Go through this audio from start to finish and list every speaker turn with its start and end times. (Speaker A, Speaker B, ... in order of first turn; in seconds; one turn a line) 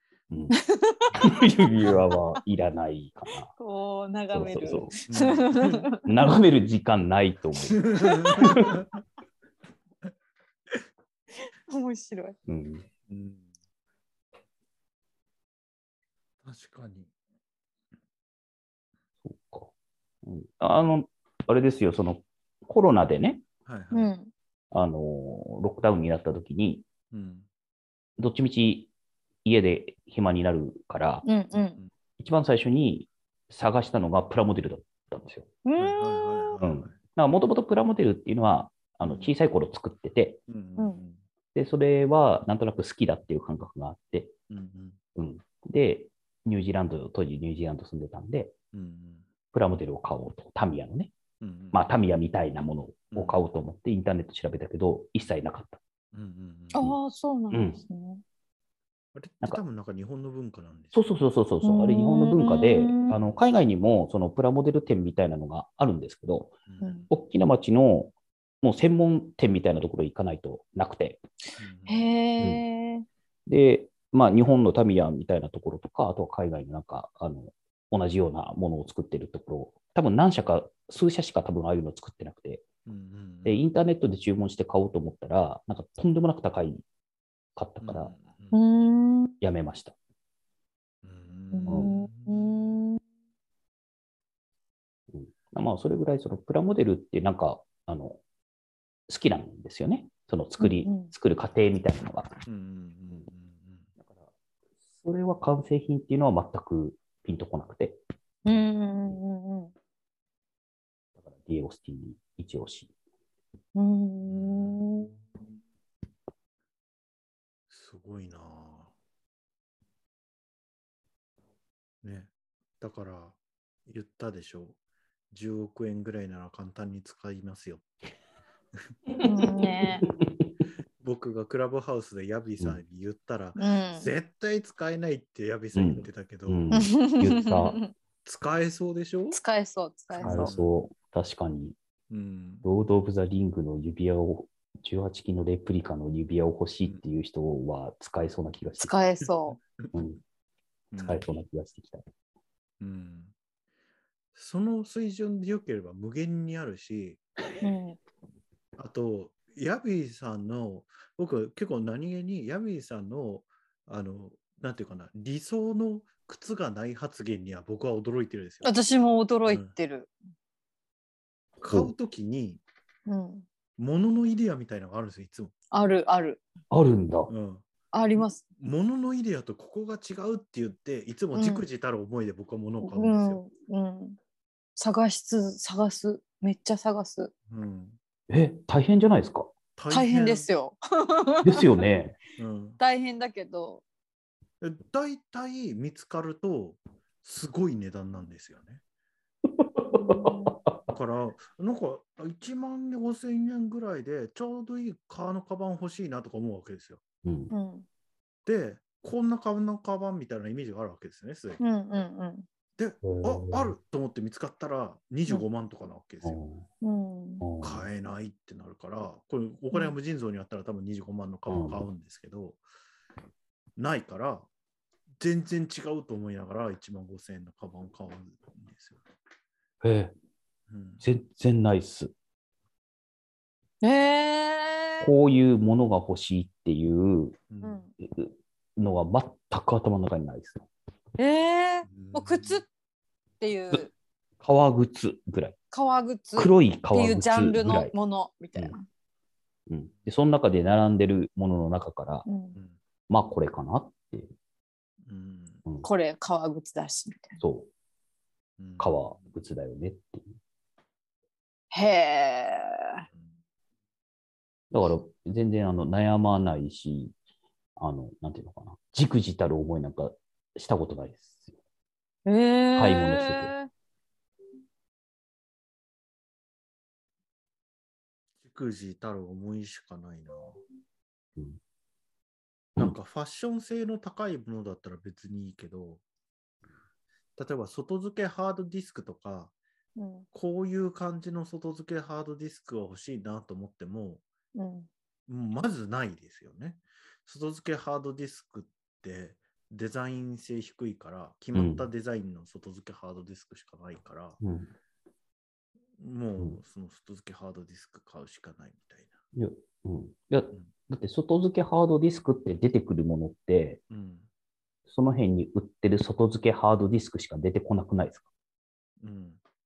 Speaker A: 0.3-0.6
Speaker B: 0.5-1.2
Speaker A: 1.1-3.5
Speaker B: 3.6-6.1
Speaker A: 4.3-4.9
Speaker C: 5.1-5.9
Speaker A: 6.0-8.8
Speaker C: 7.8-8.9
Speaker B: 8.0-8.5
Speaker B: 11.7-12.4
Speaker A: 12.5-12.9
Speaker C: 13.1-13.5
Speaker C: 16.4-17.1
Speaker A: 19.2-19.7
Speaker A: 20.2-23.4
Speaker C: 23.7-24.1
Speaker B: 23.9-24.3
Speaker A: 24.7-26.9
Speaker C: 27.1-27.5
Speaker A: 28.2-28.9
Speaker A: 29.4-31.2
Speaker B: 31.2-31.8
Speaker C: 31.6-31.9
Speaker A: 32.2-35.5
Speaker B: 35.6-36.6
Speaker C: 35.8-37.0
Speaker A: 36.6-40.4
Speaker C: 39.0-39.3
Speaker C: 40.5-41.2
Speaker A: 41.5-44.3
Speaker C: 44.5-45.0
Speaker A: 45.1-48.5
Speaker C: 48.7-49.3
Speaker A: 49.5-51.1
Speaker C: 51.4-51.8
Speaker A: 51.7-55.8
Speaker C: 53.1-53.4
Speaker C: 56.1-56.9
Speaker B: 56.7-58.2
Speaker A: 57.5-57.8
Speaker C: 59.1-61.0
Speaker A: 60.9-66.6
Speaker B: 61.6-63.2
Speaker C: 66.7-67.1
Speaker B: 66.8-67.1
Speaker A: 67.1-71.2
Speaker C: 71.6-72.1
Speaker B: 71.9-73.1
Speaker A: 73.5-82.7
Speaker C: 82.9-83.6
Speaker A: 83.5-86.8
Speaker A: 87.6-88.1
Speaker C: 87.8-88.6
Speaker B: 88.5-89.3
Speaker A: 89.4-90.0
Speaker C: 91.0-92.5
Speaker B: 91.5-93.0
Speaker A: 95.1-98.2
Speaker A: 99.1-102.3
Speaker B: 100.6-101.1
Speaker C: 102.5-103.9
Speaker A: 104.0-104.3
Speaker A: 105.0-108.0
Speaker B: 108.5-109.7
Speaker A: 111.2-112.9
Speaker B: 113.8-115.1
Speaker C: 114.3-115.2
Speaker C: 117.7-118.9
Speaker C: 122.0-124.8
Speaker C: 125.3-127.9
Speaker A: 129.1-130.5
Speaker B: 129.2-130.1
Speaker C: 131.0-136.7
Speaker B: 133.6-134.1
Speaker A: 135.7-137.8
Speaker B: 136.7-137.9
Speaker C: 138.2-139.4
Speaker B: 139.3-140.5
Speaker C: 140.1-140.7
Speaker A: 140.2-141.8
Speaker C: 142.1-142.7
Speaker A: 142.6-148.9
Speaker B: 148.8-149.6
Speaker C: 149.2-149.9
Speaker A: 149.9-150.2
Speaker C: 150.9-151.3
Speaker A: 151.0-152.1
Speaker C: 152.8-153.3
Speaker C: 154.3-157.2
Speaker B: 157.6-158.0
Speaker C: 158.8-168.7
Speaker B: 168.6-170.1
Speaker C: 169.5-169.7
Speaker C: 171.6-172.6
Speaker A: 171.7-171.9
Speaker B: 173.1-173.5
Speaker C: 173.8-175.5
Speaker B: 175.7-176.4
Speaker A: 176.7-177.3
Speaker C: 177.3-183.4
Speaker B: 177.9-178.4
Speaker B: 181.3-181.7
Speaker B: 182.8-184.2
Speaker B: 184.8-187.3
Speaker C: 187.5-188.0
Speaker A: 188.3-189.5
Speaker C: 189.8-190.5
Speaker B: 189.9-191.8
Speaker A: 191.4-192.2
Speaker C: 192.4-192.8
Speaker B: 192.8-193.8
Speaker C: 194.6-198.8
Speaker A: 199.6-200.8
Speaker B: 199.9-200.6
Speaker C: 200.9-207.0
Speaker A: 207.2-207.5
Speaker B: 207.5-207.9
Speaker C: 208.5-211.6
Speaker B: 211.6-212.5
Speaker C: 212.8-216.4
Speaker A: 213.0-213.7
Speaker A: 216.2-216.7
Speaker B: 216.8-217.4
Speaker A: 217.4-217.9
Speaker C: 217.6-222.6
Speaker A: 221.5-221.9
Speaker C: 223.8-224.5
Speaker C: 225.2-229.0
Speaker A: 229.8-230.1
Speaker C: 230.7-231.0
Speaker A: 231.0-232.1
Speaker B: 233.8-235.1
Speaker A: 235.0-237.4
Speaker C: 237.5-237.8
Speaker B: 237.6-237.9
Speaker A: 238.0-240.7
Speaker B: 241.2-242.7
Speaker C: 241.9-242.6
Speaker B: 243.4-243.9
Speaker A: 244.4-245.6
Speaker B: 245.7-248.9
Speaker A: 246.4-247.9
Speaker A: 249.7-252.2
Speaker B: 252.3-252.6
Speaker A: 253.1-254.3
Speaker C: 255.0-255.6
Speaker B: 255.8-257.4
Speaker A: 257.4-257.7
Speaker C: 258.6-259.1
Speaker A: 258.8-260.4
Speaker B: 261.7-263.0
Speaker A: 264.7-267.1
Speaker A: 267.8-271.5
Speaker B: 272.3-273.7
Speaker A: 272.8-273.5
Speaker C: 278.4-280.6
Speaker C: 282.8-286.0
Speaker C: 287.4-289.5
Speaker B: 290.0-290.3
Speaker C: 290.3-294.2
Speaker B: 294.6-294.9
Speaker C: 295.3-304.4
Speaker A: 301.6-301.9
Speaker A: 304.4-304.7
Speaker C: 306.0-309.1
Speaker A: 309.4-313.8
Speaker C: 313.9-314.3
Speaker A: 314.9-318.3
Speaker C: 319.0-319.4